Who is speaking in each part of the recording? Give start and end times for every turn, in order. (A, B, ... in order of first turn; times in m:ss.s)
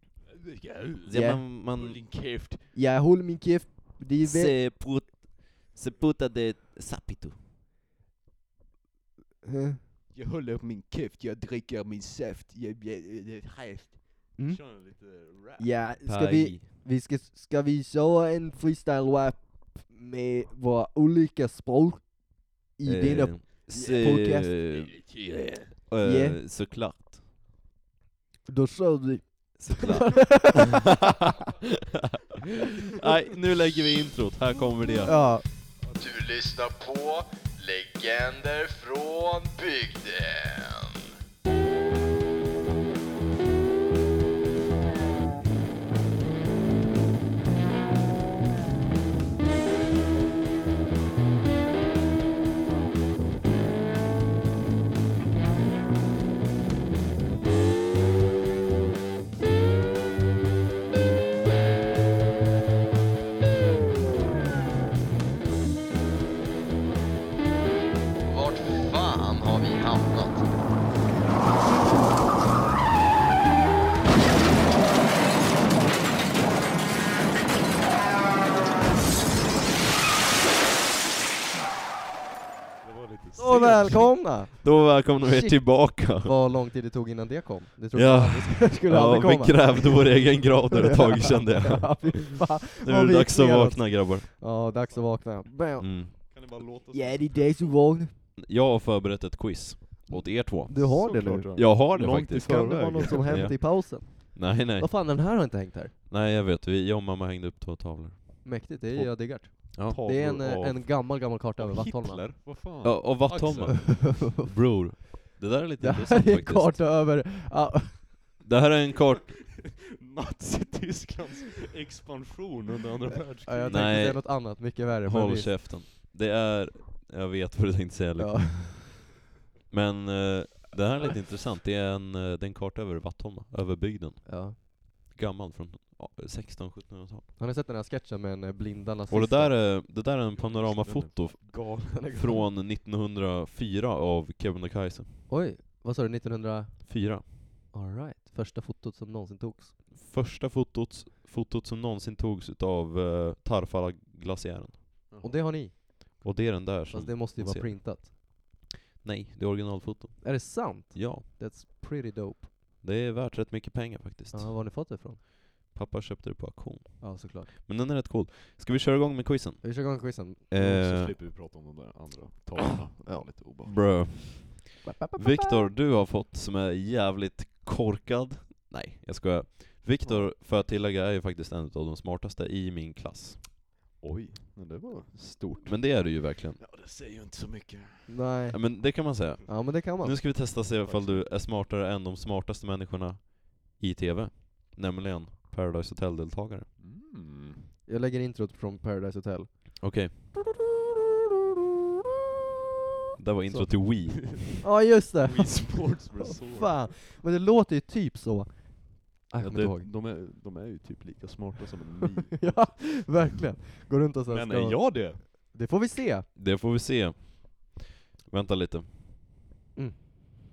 0:00.3-0:02.7 A
0:01.0-0:02.0 B
0:01.1-0:01.5 C
0:02.7-0:04.6 C
0:04.2-0:07.4 B
0:09.4-0:09.8 C
0:10.1-0:15.7 A
0:14.4-0:24.5 C
0:16.0-0:16.6 B
0:22.8-0:25.0 B
0:23.7-0:25.8 A
0:25.9-0:27.2 B
0:26.0-0:26.4 C
0:28.5-0:30.9 C
0:29.6-0:30.7 B
0:33.0-0:35.2 B
0:35.0-0:35.5 C
0:36.0-0:41.1 D
1:08.3-1:10.5 D
1:22.8-1:24.1 A
1:23.4-1:38.1 C
1:23.8-1:26.3 B
1:27.9-1:34.3 B
1:34.6-1:35.2 A
1:35.8-1:36.1 B
1:36.3-1:37.8 A
1:38.4-1:45.5 B
1:40.1-1:41.8 C
1:40.7-1:43.6 A
1:42.4-1:45.9 C
1:46.1-1:48.7 B
1:48.4-1:52.2 C
1:49.5-1:50.0 B
1:49.8-1:53.9 A
1:52.8-1:56.8 B
1:54.1-1:54.4 C
1:55.8-1:58.3 C
1:58.4-1:59.3 B
2:00.0-2:03.9 A
2:03.4-2:05.8 C
2:03.7-2:09.0 B
2:08.2-2:09.0 C
2:09.7-2:17.3 B
2:14.2-2:14.6 C
2:17.4-2:19.6 C
2:19.1-2:25.2 B
2:20.3-2:22.4 A
2:21.9-2:22.4 C
2:25.3-2:29.8 C
2:26.8-2:27.4 B
2:29.9-2:34.8 B
2:35.1-2:35.4 A
2:35.2-2:36.2 C
2:36.2-2:41.3 B
2:36.9-2:38.1 C
2:40.2-2:42.5 C
2:42.8-2:44.7 B
2:44.3-2:45.2 C
2:45.6-2:51.2 B
2:47.0-2:47.5 C
2:49.6-2:50.5 C
2:50.6-2:53.8 A
2:53.0-2:53.3 C
2:53.7-3:03.4 B
2:54.8-2:55.7 C
3:00.0-3:00.3 A
3:04.0-3:08.2 A
3:05.6-3:06.6 B
3:08.1-3:10.2 C
3:08.5-3:16.7 B
3:10.8-3:11.3 A
3:16.8-3:17.7 A
3:17.9-3:20.3 C
3:19.8-3:20.1 B
3:23.2-3:24.4 B
3:23.5-3:29.9 C
3:25.2-3:26.9 A
3:29.4-3:33.1 A
3:32.3-3:36.3 C
3:34.3-3:35.2 A
3:36.4-3:39.2 B